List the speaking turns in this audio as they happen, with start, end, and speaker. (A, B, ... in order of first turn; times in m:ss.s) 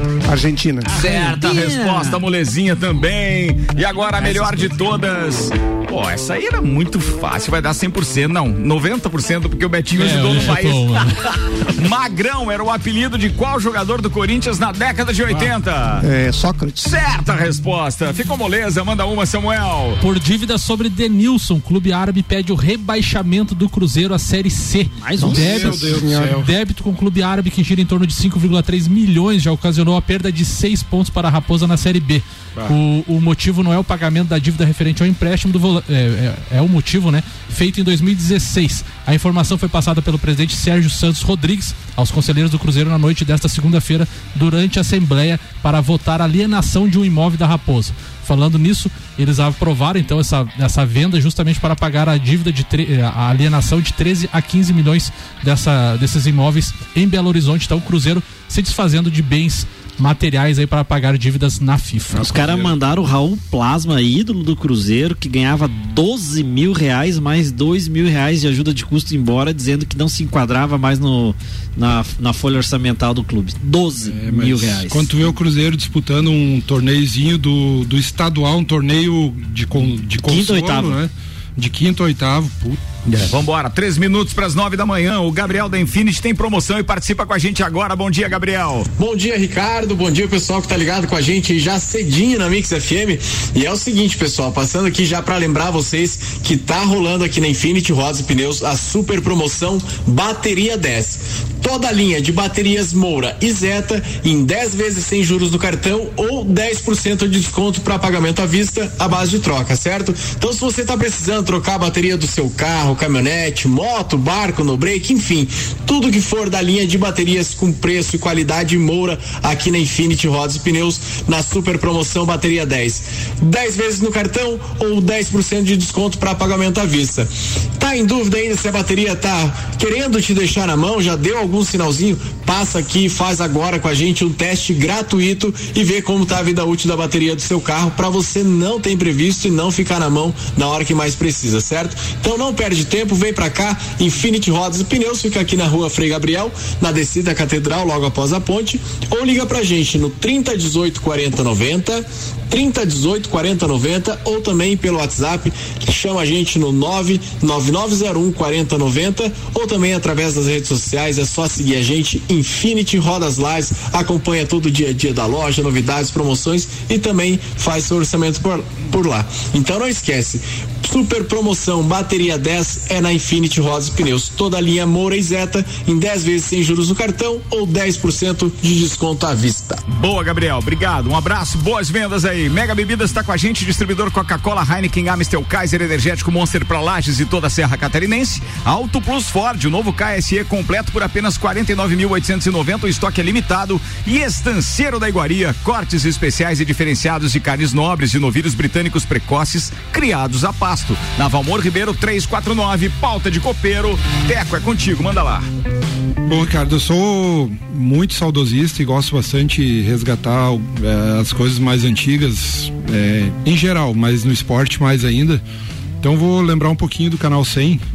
0:00.2-0:00.9 A
0:00.9-0:02.2 B
0:00.9-0:16.1 C
0:04.2-0:04.7 B
0:09.9-0:11.1 D
0:16.0-0:16.9 A
0:16.8-0:20.0 C
0:20.0-1:02.3 D
0:25.0-0:25.8 B
0:25.2-0:26.4 A
0:25.3-0:26.5 E
1:02.1-1:02.8 E
1:02.2-1:15.1 B
1:14.0-1:22.8 E
1:20.3-1:21.0 B
1:23.0-1:28.9 C
1:29.0-2:59.8 F
2:59.9-3:25.5 C
3:26.3-3:35.4 E
3:36.0-3:37.8 E